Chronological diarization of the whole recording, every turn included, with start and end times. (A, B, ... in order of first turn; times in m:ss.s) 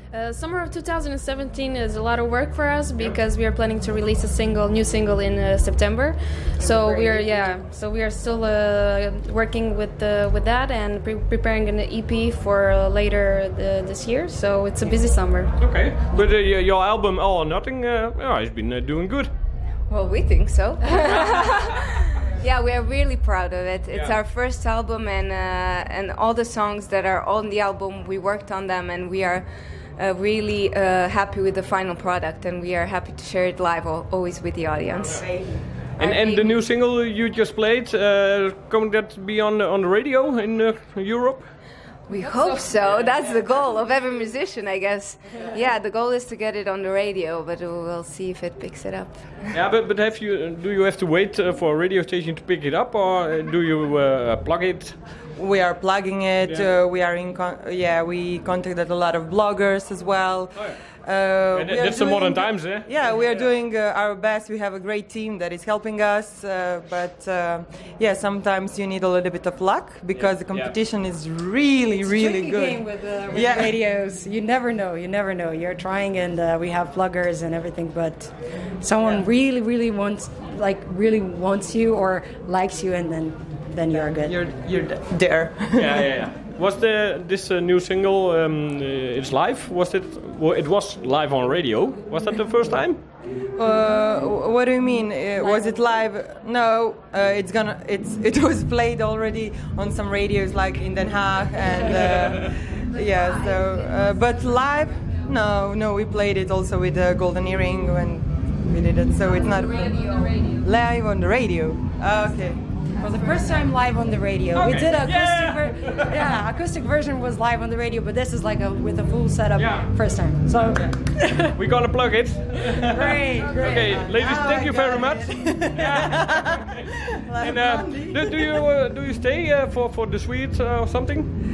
0:00.1-0:15.5 A
0:06.6-0:07.6 B
0:15.6-0:19.3 C
0:19.9-0:29.5 D
0:23.9-0:24.2 C
0:30.0-0:36.6 D
0:34.9-0:35.2 C
0:36.0-0:41.5 C
0:42.1-0:49.4 D
0:42.8-0:43.4 C
0:49.5-0:55.0 C
0:55.4-1:13.7 E
1:01.5-1:03.4 C
1:10.1-1:10.8 C
1:12.0-1:24.4 B
1:23.9-1:26.1 E
1:25.8-1:33.0 C
1:33.6-1:52.6 E
1:43.0-1:44.1 D
1:53.0-2:01.6 B
1:54.5-1:56.3 C
1:59.6-1:59.9 C
2:01.5-2:06.8 C
2:02.8-2:04.1 B
2:03.6-2:08.6 E
2:07.4-2:11.3 C